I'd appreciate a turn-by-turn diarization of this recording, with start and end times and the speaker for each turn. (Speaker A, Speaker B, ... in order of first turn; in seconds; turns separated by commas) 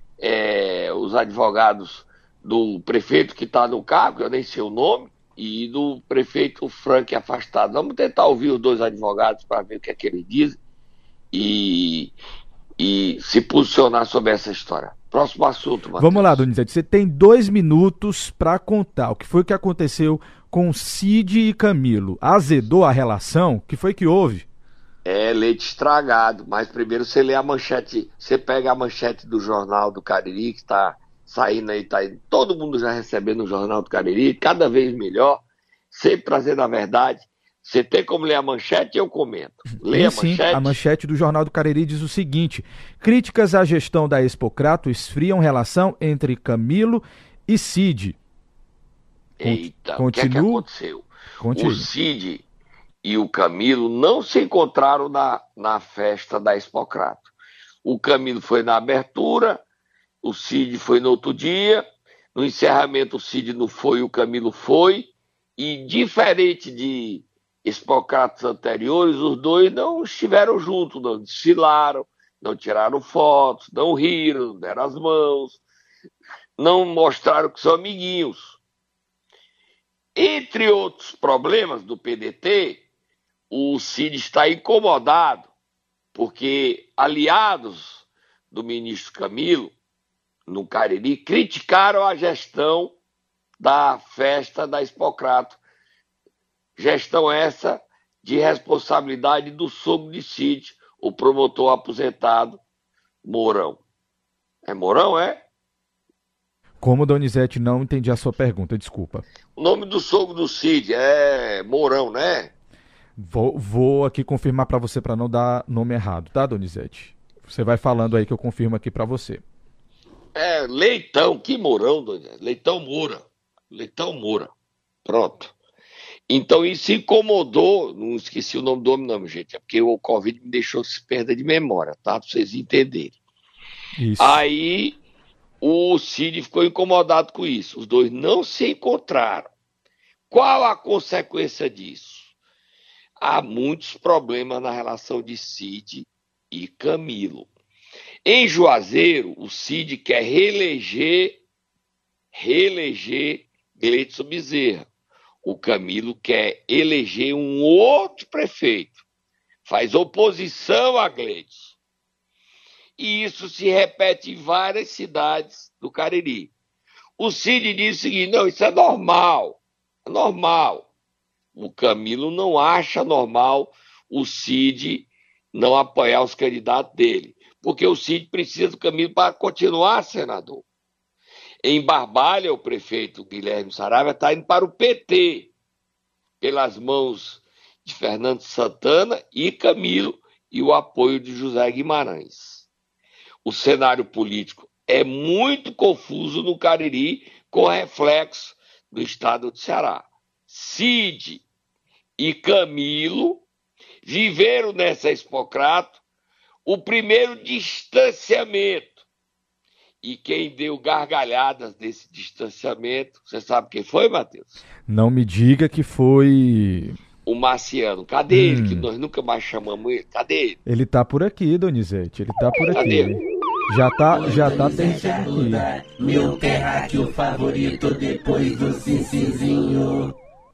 Speaker A: 0.2-10.6, Speaker A: 11.3-12.1, Speaker A: 12.8-16.4, Speaker B: 16.0-24.4, Speaker A: 25.0-40.7, Speaker B: 39.8-48.2, Speaker A: 49.4-52.4, Speaker B: 49.4-50.7, Speaker B: 51.4-51.9, Speaker A: 53.0-57.3, Speaker A: 57.8-59.6, Speaker A: 60.2-75.6, Speaker A: 76.6-78.6, Speaker A: 80.1-82.8, Speaker A: 83.5-85.5, Speaker A: 86.1-89.7, Speaker A: 90.5-92.9, Speaker A: 93.6-95.6, Speaker A: 96.8-102.6, Speaker A: 103.2-103.8, Speaker A: 104.6-105.4, Speaker B: 106.8-109.2, Speaker A: 109.6-112.5, Speaker B: 113.2-119.4, Speaker A: 120.3-124.5, Speaker A: 125.0-125.5, Speaker A: 126.3-133.2, Speaker B: 134.0-134.4, Speaker A: 134.2-135.0, Speaker A: 135.6-139.5, Speaker A: 140.3-142.3, Speaker A: 143.2-147.5, Speaker A: 148.2-151.4, Speaker A: 152.3-154.9, Speaker A: 155.4-159.0, Speaker A: 159.6-161.7, Speaker A: 163.0-166.5, Speaker A: 167.2-170.9, Speaker A: 171.6-180.6, Speaker A: 181.6-185.5, Speaker A: 186.4-192.7, Speaker A: 193.4-201.4, Speaker A: 202.2-203.4, Speaker A: 204.0-206.0, Speaker A: 206.7-209.0, Speaker A: 210.0-214.6, Speaker B: 214.9-217.0, Speaker A: 217.2-220.6, Speaker B: 218.3-218.9, Speaker B: 220.7-225.6, Speaker A: 222.7-223.1, Speaker C: 224.1-230.1